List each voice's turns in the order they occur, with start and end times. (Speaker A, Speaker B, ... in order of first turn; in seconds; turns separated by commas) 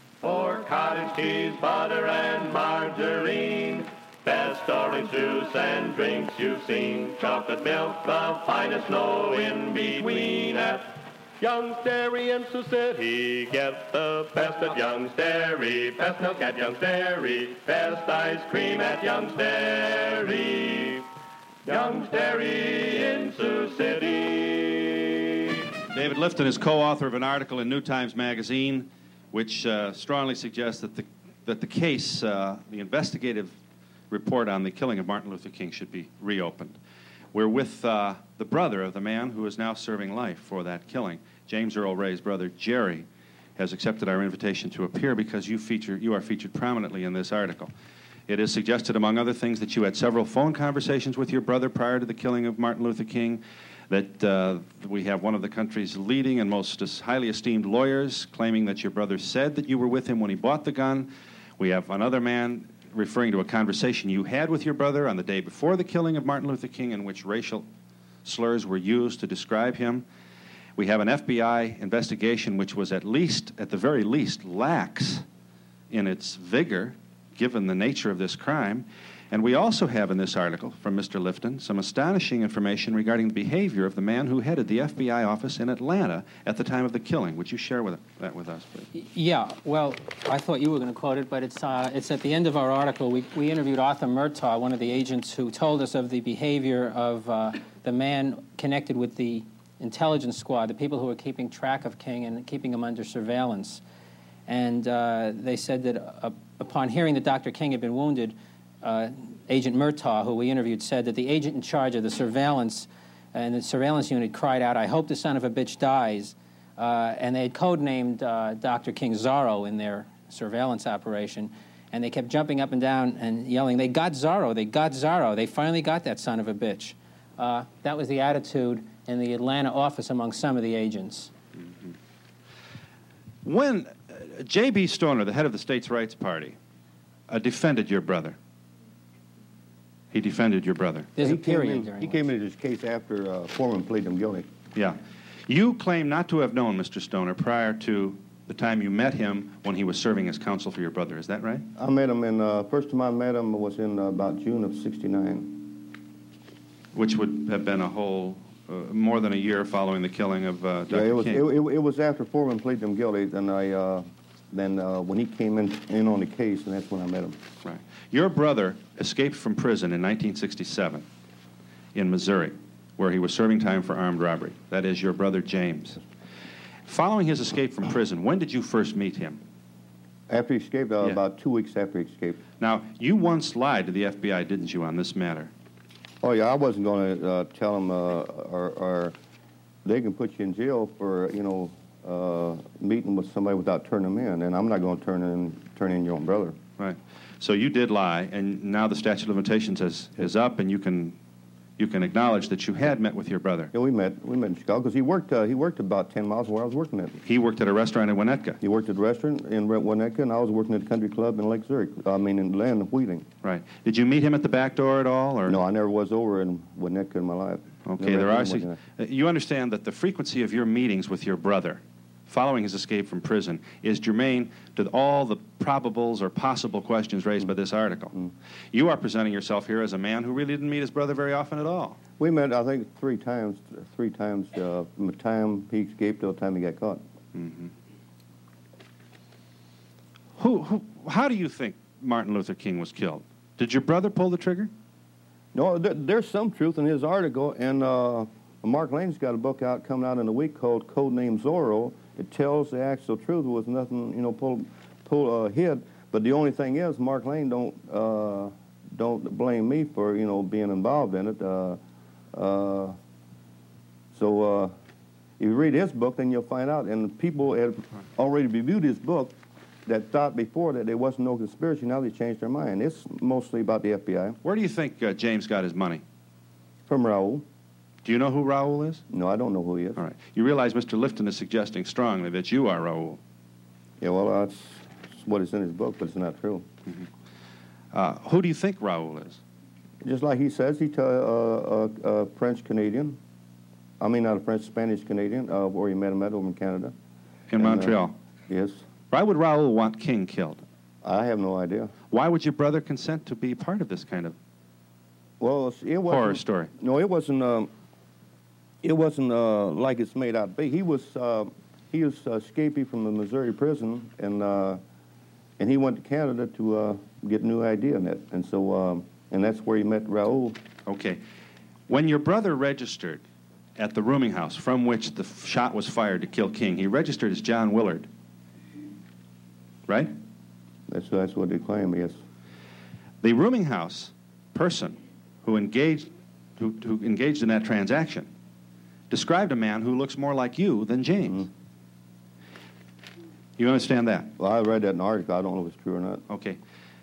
Speaker A: 0.2-21.1, Speaker A: 21.6-25.6, Speaker B: 25.9-33.5, Speaker B: 34.1-36.8, Speaker B: 37.3-43.1, Speaker B: 43.6-47.7, Speaker B: 48.3-67.7, Speaker B: 68.2-70.0, Speaker B: 70.8-75.2, Speaker B: 75.9-88.9, Speaker C: 88.9-103.8, Speaker C: 104.5-131.3, Speaker B: 131.6-131.9, Speaker B: 133.4-136.6, Speaker B: 137.3-138.4, Speaker B: 140.1-141.1, Speaker C: 141.2-142.2, Speaker D: 141.2-144.5, Speaker B: 144.8-151.7, Speaker D: 151.8-155.8, Speaker B: 156.9-161.4, Speaker D: 160.9-167.4, Speaker B: 167.6-171.1, Speaker B: 171.9-176.0, Speaker B: 176.9-179.4, Speaker D: 180.3-182.4, Speaker B: 182.6-185.5, Speaker D: 186.2-189.2, Speaker D: 189.8-196.6, Speaker B: 196.8-201.2, Speaker B: 201.8-203.7, Speaker D: 203.7-207.2, Speaker B: 207.2-208.6, Speaker D: 208.6-213.3, Speaker B: 213.4-215.6, Speaker D: 215.5-218.8, Speaker B: 217.9-228.1, Speaker B: 228.7-232.0, Speaker D: 232.2-237.0, Speaker B: 237.3-237.7, Speaker B: 240.4-244.7, Speaker D: 245.5-261.8, Speaker D: 262.3-263.0, Speaker D: 264.1-264.7, Speaker D: 265.4-274.4, Speaker B: 274.4-276.0, Speaker D: 276.9-277.4, Speaker B: 278.1-279.0, Speaker D: 279.1-280.0, Speaker B: 280.0-283.2, Speaker D: 284.0-286.7, Speaker B: 287.9-289.4, Speaker D: 290.0-293.2, Speaker D: 294.0-296.9, Speaker B: 297.5-298.1, Speaker D: 297.6-298.0, Speaker D: 298.5-298.8, Speaker B: 299.1-300.6, Speaker D: 301.0-301.9, Speaker B: 302.1-304.4, Speaker D: 305.4-307.7, Speaker B: 306.1-306.7, Speaker D: 308.8-314.8, Speaker D: 315.6-320.6, Speaker B: 320.9-321.2, Speaker B: 321.9-323.2, Speaker B: 323.8-328.1, Speaker B: 329.9-330.1, Speaker D: 330.9-332.2, Speaker B: 333.2-338.3, Speaker B: 339.1-341.5, Speaker B: 343.6-344.3, Speaker D: 344.4-346.2, Speaker B: 346.3-346.6